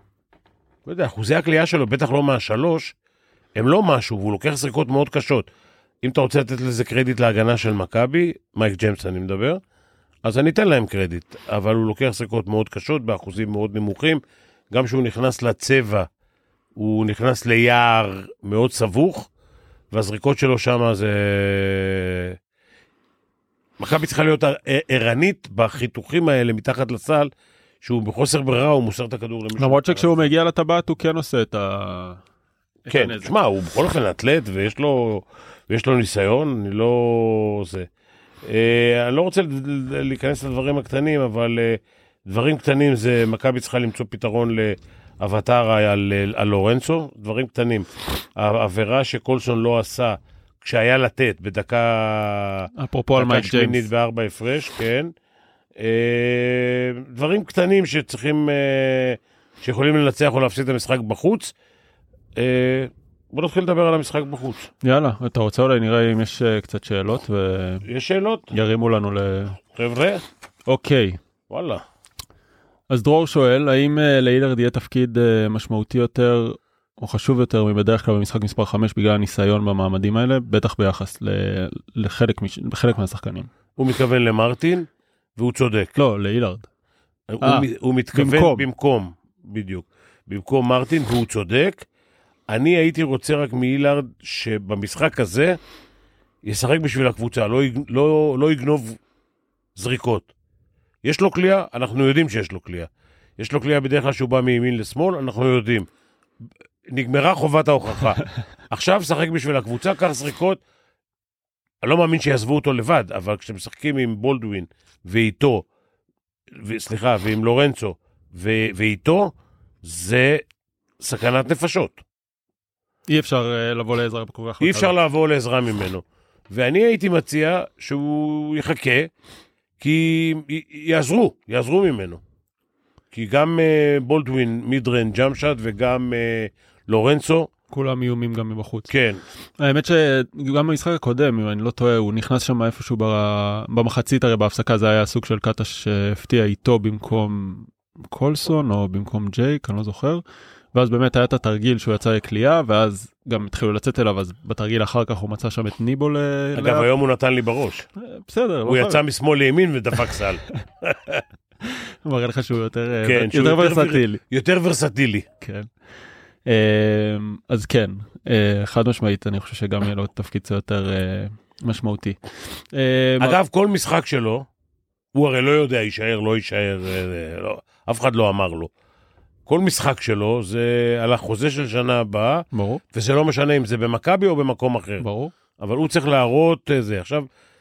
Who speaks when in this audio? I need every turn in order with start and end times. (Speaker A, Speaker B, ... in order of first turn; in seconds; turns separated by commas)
Speaker A: 0.9-2.9, Speaker A: 3.6-5.5, Speaker A: 6.0-9.6, Speaker A: 10.2-14.2, Speaker A: 14.7-16.1, Speaker A: 16.8-19.3, Speaker A: 19.9-22.4, Speaker A: 23.8-27.3, Speaker A: 27.8-30.2, Speaker B: 29.6-32.2, Speaker B: 32.9-33.3, Speaker A: 32.9-37.9, Speaker A: 38.5-55.1, Speaker B: 52.8-53.9, Speaker A: 55.8-61.5, Speaker A: 62.4-64.7, Speaker B: 64.8-67.8, Speaker A: 67.9-68.5, Speaker B: 68.5-69.6, Speaker A: 69.7-70.2, Speaker B: 70.7-71.2, Speaker A: 71.5-71.8, Speaker B: 72.9-83.5, Speaker A: 83.8-86.0, Speaker B: 86.0-86.7, Speaker A: 87.3-91.8, Speaker B: 87.4-88.7, Speaker A: 92.5-95.6, Speaker A: 96.4-99.0, Speaker A: 99.8-100.3, Speaker A: 101.0-105.9, Speaker A: 106.9-110.6, Speaker A: 111.8-115.7, Speaker A: 116.5-120.4, Speaker A: 121.0-122.0, Speaker B: 123.1-124.9, Speaker A: 124.6-129.1, Speaker A: 129.8-132.2, Speaker A: 133.1-137.5, Speaker B: 137.7-138.9, Speaker A: 138.9-139.2, Speaker B: 139.6-150.2, Speaker B: 150.7-156.9, Speaker A: 156.6-157.9, Speaker B: 158.0-159.0, Speaker A: 158.7-161.2, Speaker B: 161.6-164.2, Speaker A: 163.0-165.3, Speaker B: 165.4-165.7, Speaker B: 166.5-172.2, Speaker B: 172.7-173.4, Speaker A: 173.2-174.5, Speaker A: 175.2-178.7, Speaker A: 179.5-185.1, Speaker B: 182.5-182.8, Speaker B: 185.0-185.3, Speaker A: 185.6-187.3